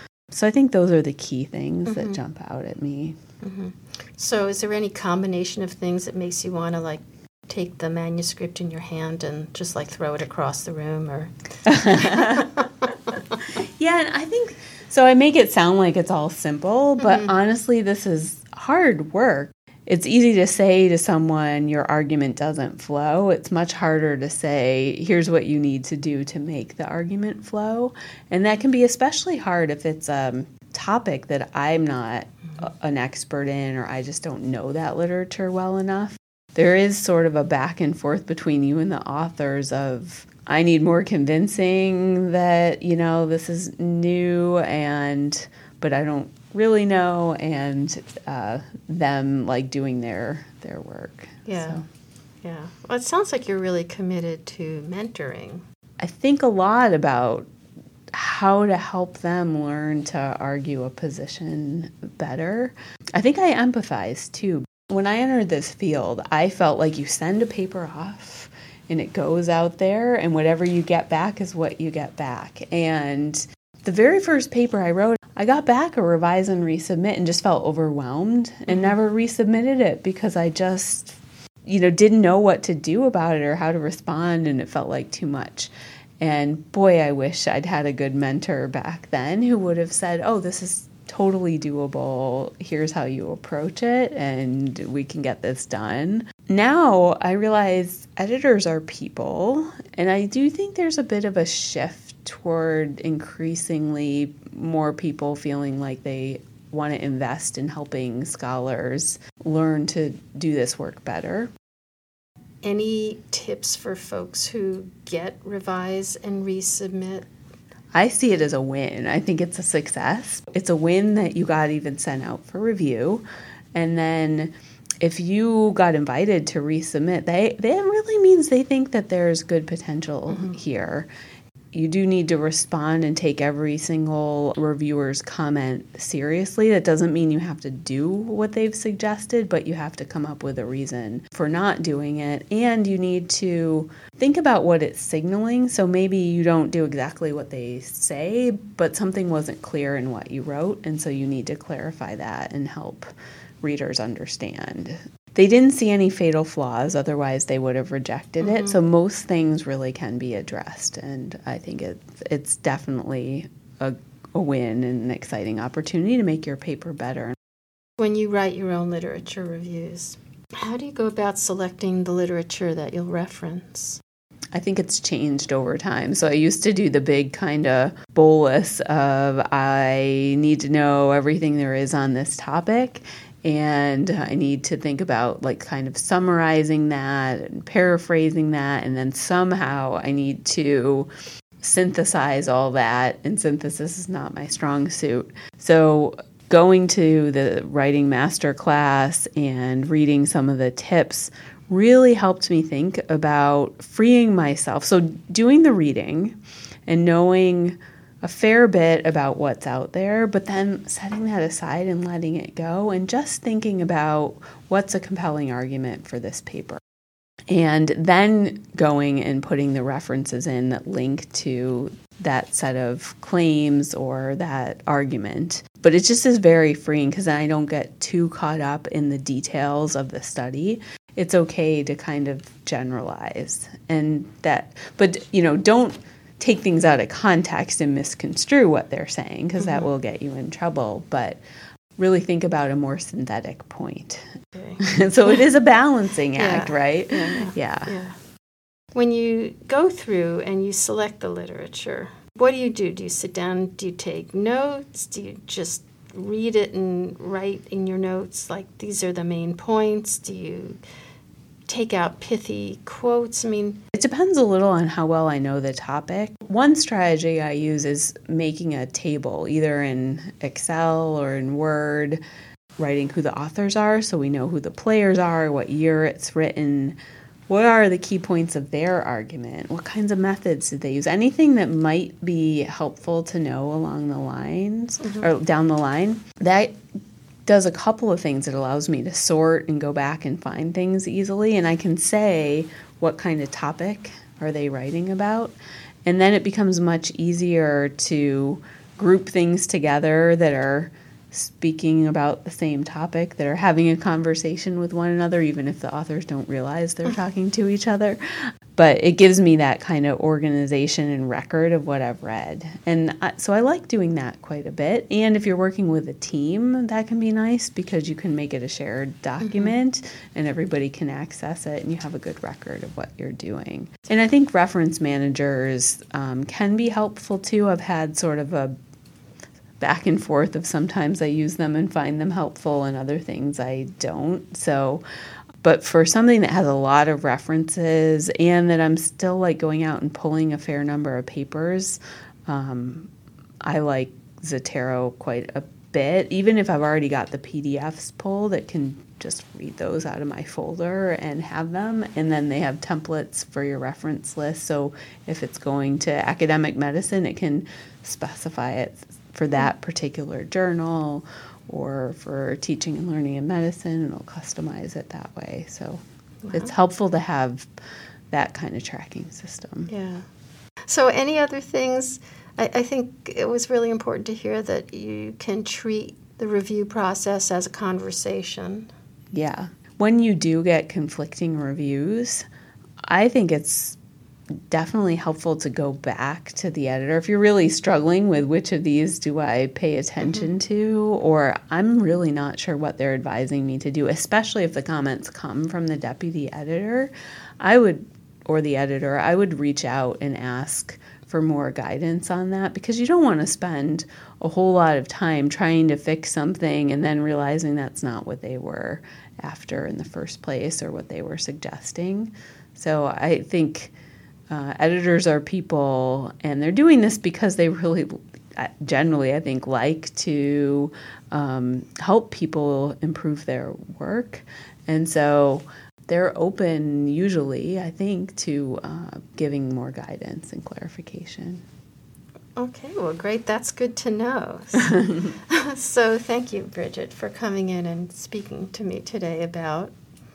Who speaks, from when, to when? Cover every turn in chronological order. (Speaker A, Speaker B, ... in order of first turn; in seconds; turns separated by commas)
Speaker A: 0.3-3.2, Speaker B: 1.9-2.2, Speaker B: 3.4-11.3, Speaker A: 11.7-12.6, Speaker B: 11.8-12.6, Speaker A: 13.6-51.8, Speaker B: 17.0-17.3, Speaker B: 51.5-51.8, Speaker B: 52.4-55.6, Speaker A: 56.0-57.5, Speaker A: 58.1-111.5, Speaker B: 78.7-78.9, Speaker B: 112.6-117.3, Speaker A: 117.9-131.1, Speaker B: 130.3-130.6, Speaker A: 131.7-153.1, Speaker A: 153.6-167.4, Speaker B: 158.4-158.8, Speaker B: 168.0-174.0, Speaker A: 174.5-191.1, Speaker A: 191.6-216.8, Speaker A: 217.5-241.4, Speaker B: 239.6-239.9, Speaker A: 242.0-244.2, Speaker B: 244.6-245.4, Speaker A: 244.8-248.0, Speaker B: 246.4-248.2, Speaker B: 248.9-260.8, Speaker B: 261.7-263.8, Speaker A: 264.0-272.2, Speaker A: 272.8-277.0, Speaker A: 277.5-286.8, Speaker B: 285.0-285.3, Speaker A: 287.5-295.6, Speaker A: 296.1-308.2, Speaker A: 308.8-328.7, Speaker B: 319.4-319.8, Speaker A: 329.8-335.0, Speaker A: 335.6-343.1, Speaker A: 343.6-366.0, Speaker B: 366.4-366.7, Speaker A: 366.5-367.7, Speaker A: 368.3-369.9, Speaker B: 369.9-370.3, Speaker B: 370.9-378.9, Speaker A: 379.3-382.5, Speaker A: 383.1-384.0, Speaker A: 384.7-413.9, Speaker B: 390.2-390.5, Speaker A: 414.5-431.6, Speaker B: 432.6-439.9, Speaker A: 434.8-435.3